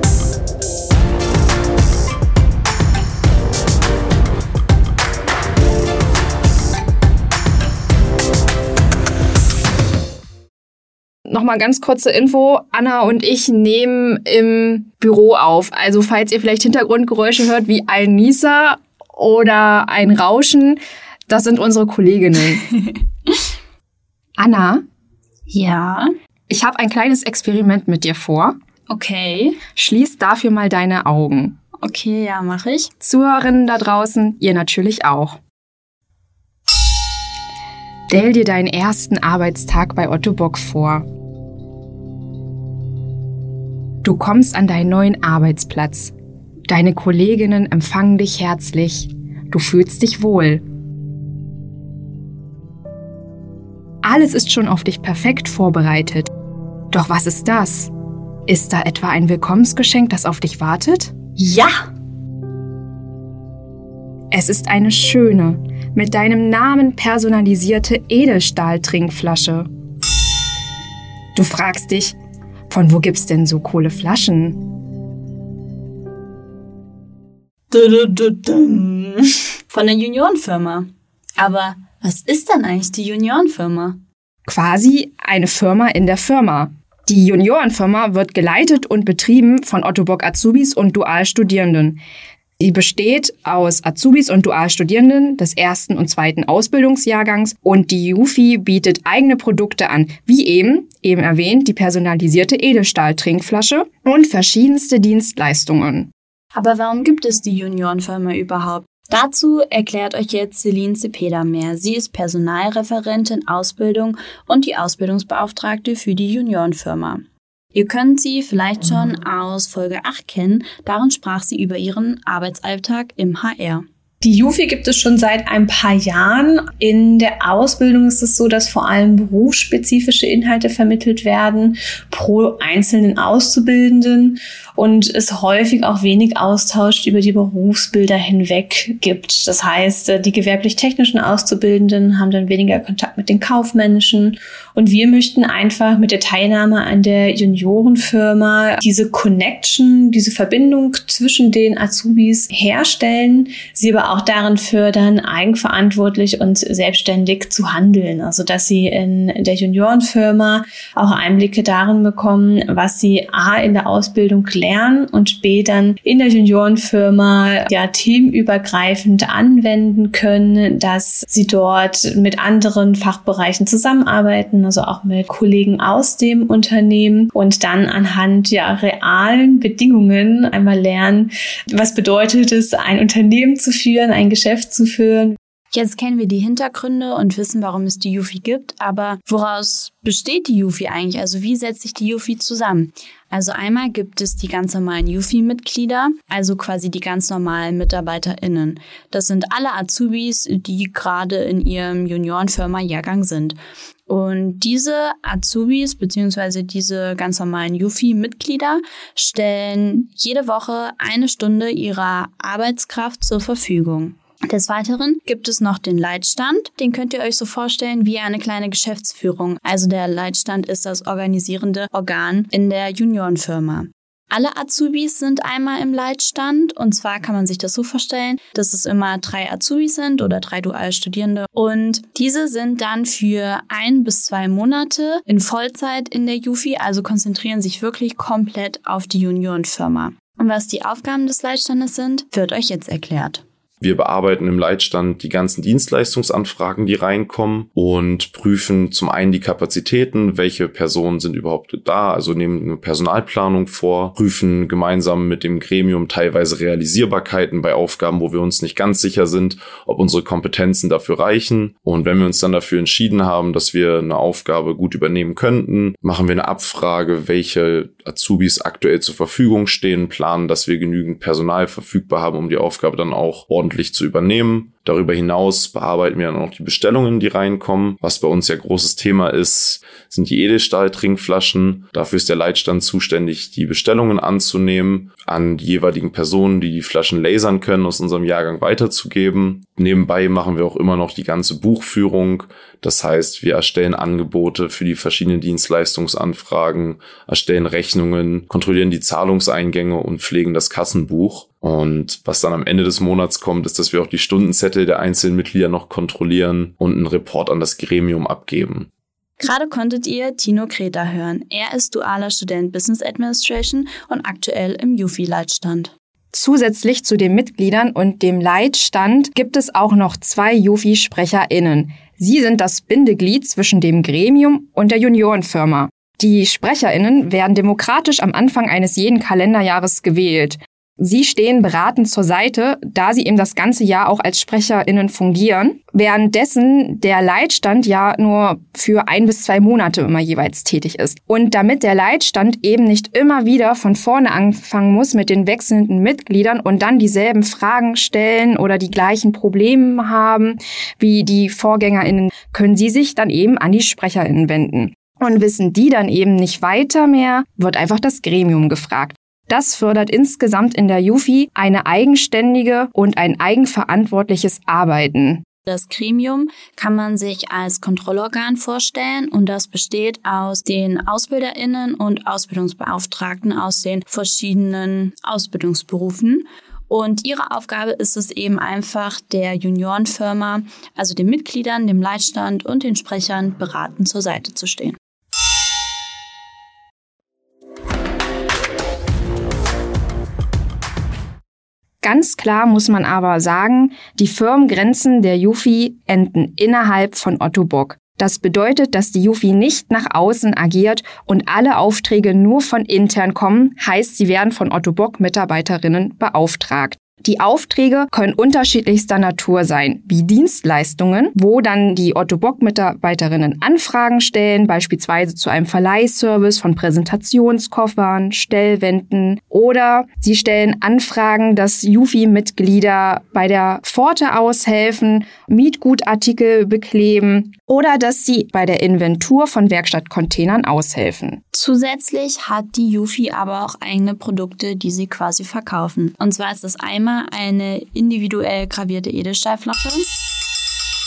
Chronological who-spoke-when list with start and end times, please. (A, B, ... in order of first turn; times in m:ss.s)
0:11.3-0:22.6 A
0:22.5-0:23.3 B
0:24.4-0:24.8 A
0:25.5-0:26.1 B
0:26.5-0:28.6 A
0:28.9-0:29.6 B
0:29.7-0:31.6 A
0:31.8-0:32.9 B
0:33.0-0:35.4 A
0:38.1-0:41.1 A
0:44.0-0:46.1 A
0:46.7-0:50.6 A
0:54.0-0:56.3 A
0:56.9-0:57.9 A
0:58.5-1:01.2 A
1:01.4-1:01.8 B
1:04.3-1:09.7 A
1:11.4-1:12.2 A
1:12.7-1:14.6 A
1:17.7-1:24.0 B
1:24.5-1:32.0 A
1:32.6-1:46.1 A
1:46.6-1:57.2 B
1:57.7-2:03.8 B
2:04.2-3:05.4 C
3:05.7-4:03.4 B
4:03.8-5:08.9 D
5:09.4-5:15.9 B
5:16.3-6:05.4 A
6:05.7-6:25.0 B
6:32.0-7:11.4 A
7:11.5-7:20.3 B